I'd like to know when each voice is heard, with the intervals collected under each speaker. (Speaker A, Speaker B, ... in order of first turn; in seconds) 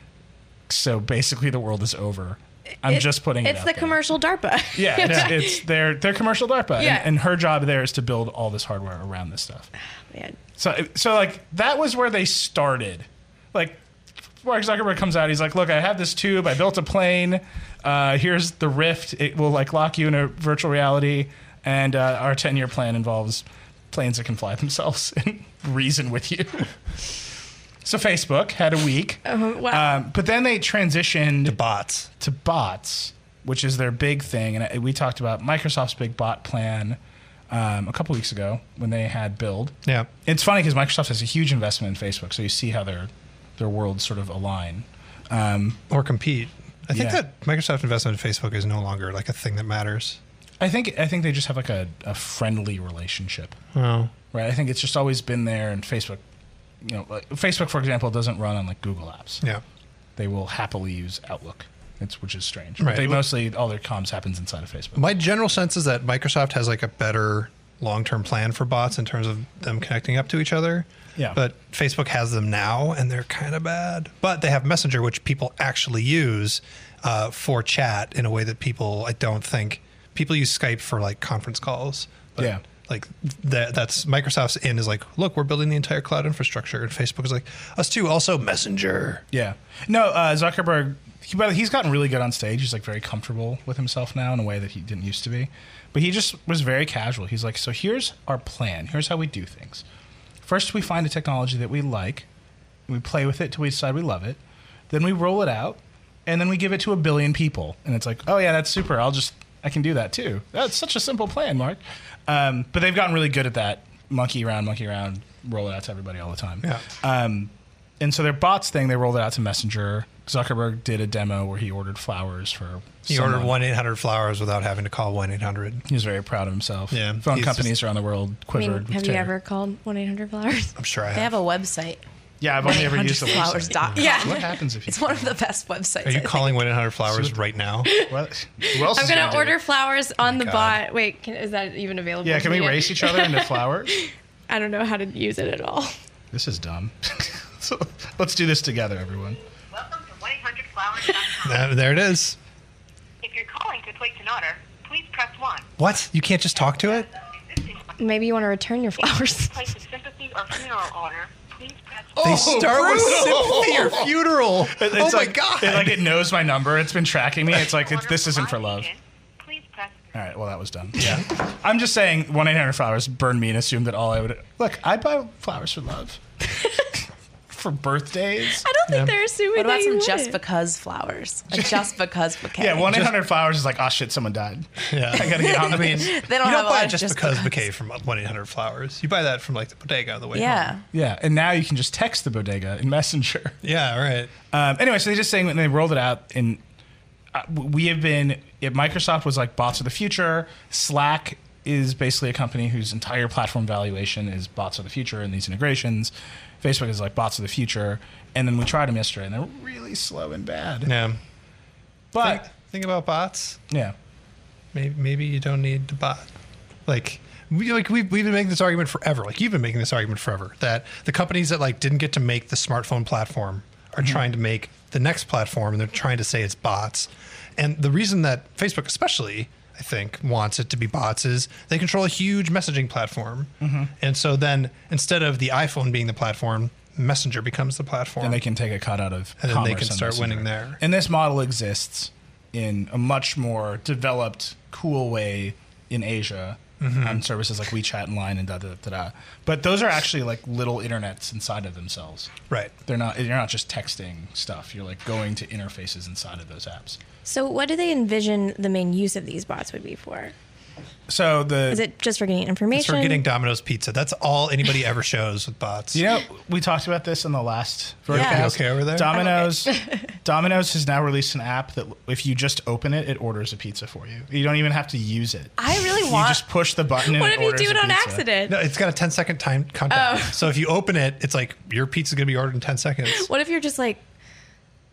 Speaker A: 0.7-4.0, 4.7-9.7, 10.6-13.8, 14.4-26.7, 27.8-31.6, 32.2-37.0, 37.5-39.7, 40.2-45.8, 46.9-47.2, 50.6-53.6, 54.3-56.2, 56.8-59.4, 60.2-65.1, 82.4-82.6, 89.3-99.8, 100.4-102.3, 102.9-104.4, 104.9-123.5, 125.9-129.3, 132.4-135.4, 137.1-137.4, 137.9-139.6, 142.2-144.0, 146.3-149.4, 162.2-168.9, 170.1-176.2, 177.5-178.7, 182.6-186.2, 190.9-193.6, 194.5-196.6, 197.3-210.9, 212.1-212.5, 213.7-213.9, 233.6-233.9, 238.2-252.3, 252.9-257.0, 261.1-261.8, 265.9-278.2
Speaker B: 2.9-5.6, 6.8-7.1, 10.1-10.4, 29.2-30.0, 128.6-130.7, 134.0-134.4, 138.6-145.9, 158.0-159.7, 178.6-180.4, 257.2-260.3, 261.7-263.2, 269.1-270.0, 277.0-278.6, 279.9-280.4, 283.1-284.0
Speaker C: 5.0-5.3, 31.4-32.1, 39.8-40.1, 45.9-50.2, 53.7-54.1, 62.8-63.3, 65.0-89.2, 123.1-125.8, 126.9-127.7, 130.8-131.3, 136.0-137.9, 140.2-140.8, 151.4-152.4, 155.8-157.1, 162.2-166.1, 171.0-171.3, 178.9-179.2, 184.9-190.7, 193.6-194.3, 210.8-211.2, 212.2-213.6, 214.7-216.3, 216.9-238.4, 239.4-240.8, 246.8-247.2, 262.7-266.0, 268.1-269.1, 278.5-283.3
Speaker D: 131.1-132.0, 132.6-136.6, 179.6-183.1, 185.5-187.6, 190.3-190.8, 268.1-268.5, 275.6-276.4
Speaker E: 149.8-151.6, 153.2-155.7, 157.5-157.9, 159.0-162.9, 167.6-170.2